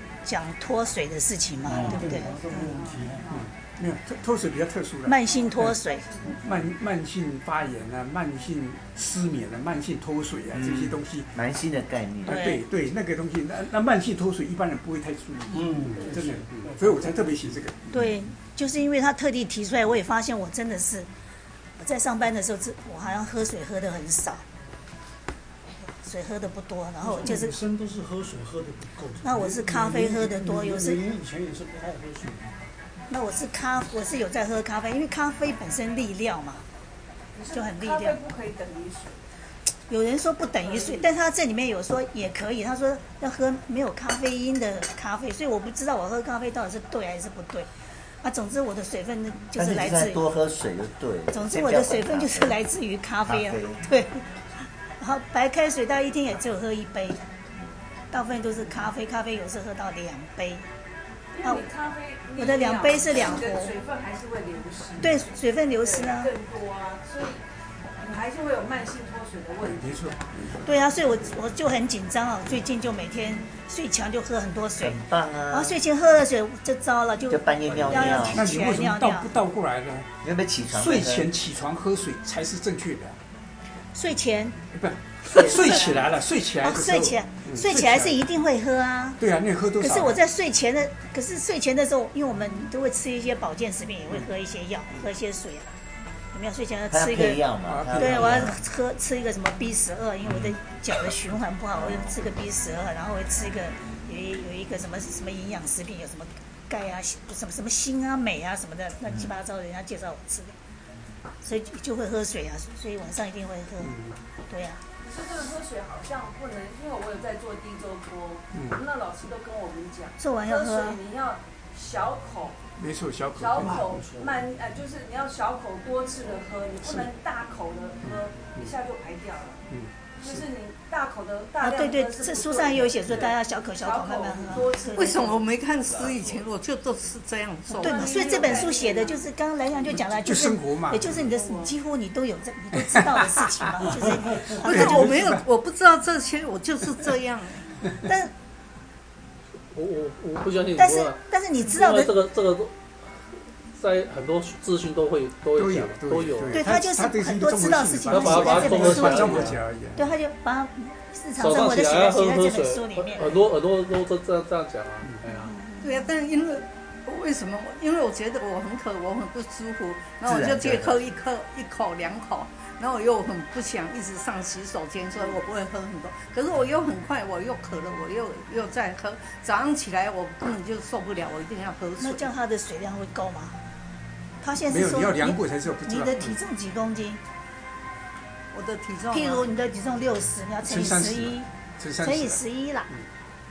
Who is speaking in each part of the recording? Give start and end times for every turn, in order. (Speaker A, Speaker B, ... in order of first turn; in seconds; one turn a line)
Speaker A: 0.2-2.7
Speaker B: 1.6-3.2
Speaker C: 1.8-3.5
Speaker D: 3.3-5.7
Speaker A: 5.0-6.2
Speaker C: 5.2-6.5
Speaker D: 6.4-11.3
Speaker E: 10.5-12.4
Speaker A: 12.2-12.6
Speaker D: 12.2-18.0
Speaker B: 15.5-17.1
Speaker A: 17.9-21.1
Speaker A: 21.8-24.4
Speaker A: 26.0-27.6
Speaker B: 27.0-32.5
Speaker A: 29.2-31.0
Speaker A: 33.1-36.6
Speaker C: 37.3-39.2
Speaker A: 37.5-38.2
Speaker A: 39.9-47.7
Speaker C: 40.6-41.0
Speaker A: 48.2-50.2
Speaker E: 49.5-52.6
Speaker A: 51.3-54.2
Speaker E: 53.2-53.8
Speaker A: 55.0-57.2
Speaker A: 58.1-60.7
Speaker C: 61.3-67.4
Speaker A: 62.4-63.8
Speaker A: 65.0-66.3
Speaker C: 68.0-70.1
Speaker D: 69.8-70.2
Speaker A: 70.6-75.0
Speaker E: 74.8-75.8
Speaker A: 75.5-79.3
Speaker E: 77.3-78.5
Speaker D: 77.9-80.1
Speaker E: 80.2-81.3
Speaker D: 80.7-83.2
Speaker A: 83.9-84.6
Speaker D: 84.7-88.2
Speaker A: 85.2-86.1
Speaker A: 86.6-89.2
Speaker D: 89.2-90.2
Speaker A: 89.8-95.7
Speaker A: 96.3-110.5
Speaker E: 96.9-98.6
Speaker D: 97.6-98.5
Speaker E: 101.7-102.2
Speaker E: 109.1-109.3
Speaker A: 111.4-114.0
Speaker D: 113.8-114.2
Speaker A: 114.5-114.8
Speaker C: 115.0-122.6
Speaker D: 118.5-118.8
Speaker A: 120.2-121.0
Speaker D: 122.8-123.9
Speaker C: 123.3-135.4
Speaker B: 123.6-124.4
Speaker D: 128.0-128.7
Speaker D: 129.7-130.4
Speaker A: 131.6-135.4
Speaker F: 134.9-138.2
Speaker C: 137.7-139.3
Speaker A: 137.8-145.1
Speaker D: 140.2-141.2
Speaker C: 141.2-141.7
Speaker D: 142.8-145.5
Speaker F: 144.6-147.6
Speaker A: 148.1-148.3
Speaker G: 149.7-152.7
Speaker A: 150.8-152.1
Speaker G: 153.7-156.7
Speaker D: 155.6-160.1
Speaker A: 156.5-163.3
Speaker G: 158.1-159.6
Speaker G: 161.4-165.5
Speaker A: 165.3-166.1
Speaker F: 165.8-182.3
Speaker E: 170.2-171.0
Speaker A: 182.0-183.6
Speaker A: 184.4-187.2
Speaker D: 184.7-186.4
Speaker F: 188.5-189.4
Speaker A: 189.1-191.5
Speaker D: 190.7-193.1
Speaker A: 192.0-192.9